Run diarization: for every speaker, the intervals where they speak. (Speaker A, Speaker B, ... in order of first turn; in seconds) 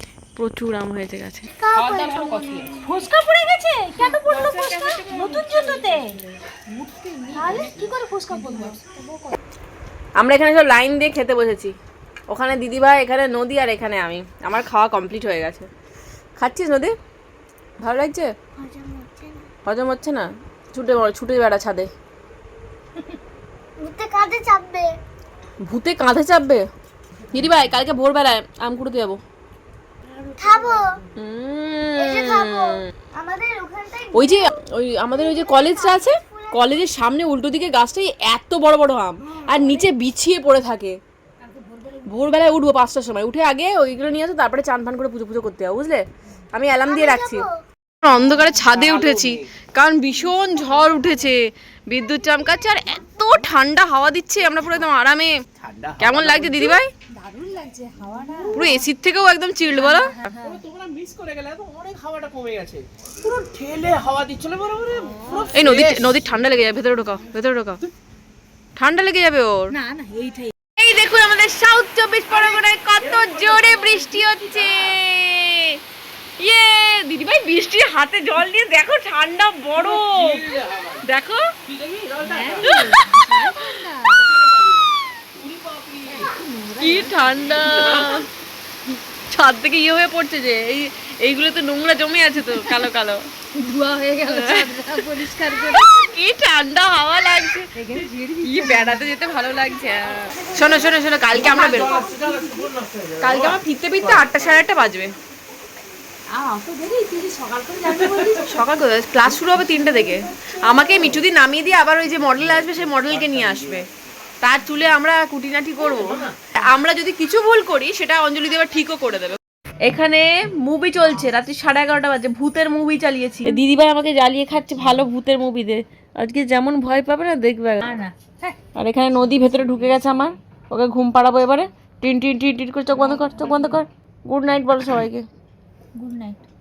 Speaker A: 0.3-1.5, 4.0-6.0, 10.2-11.7, 12.3-15.7, 16.4-16.9, 17.8-18.3, 19.6-21.9, 25.6-26.6, 27.3-29.2, 31.2-32.8, 34.1-41.0, 42.0-47.5, 48.0-55.4, 56.0-56.9, 58.5-60.3, 65.5-67.8, 68.8-69.7, 70.8-75.8, 76.4-81.5, 82.6-83.7, 86.8-88.3, 89.3-93.3, 94.2-97.7, 98.4-102.0, 103.2-105.1, 108.4-113.8, 114.4-128.0, 128.8-135.2
Speaker B: 1.6-2.9, 7.3-7.7, 18.6-19.5, 23.8-24.9, 30.4-31.0, 31.9-34.6, 35.1-36.9, 39.5-39.9, 46.9-47.6, 52.5-52.8
Speaker C: 1.8-2.7, 48.7-49.4, 55.6-56.8, 60.4-66.2, 73.1-73.4, 79.7-81.0, 81.6-82.9, 84.2-84.8, 85.4-86.3, 87.5-88.2, 101.3-104.3, 107.8-108.4, 112.3-113.8, 115.8-116.3
Speaker D: 2.8-6.2, 6.7-9.4, 30.1-31.0, 41.4-42.4, 57.1-58.8, 59.7-60.6, 65.0-65.5, 69.7-70.5, 73.0-74.7, 82.2-84.3, 86.1-88.0, 92.5-92.8, 93.5-95.9, 97.7-99.1, 100.3-102.7, 106.3-108.6, 109.5-110.9, 127.8-128.6, 132.9-133.8, 136.0-136.4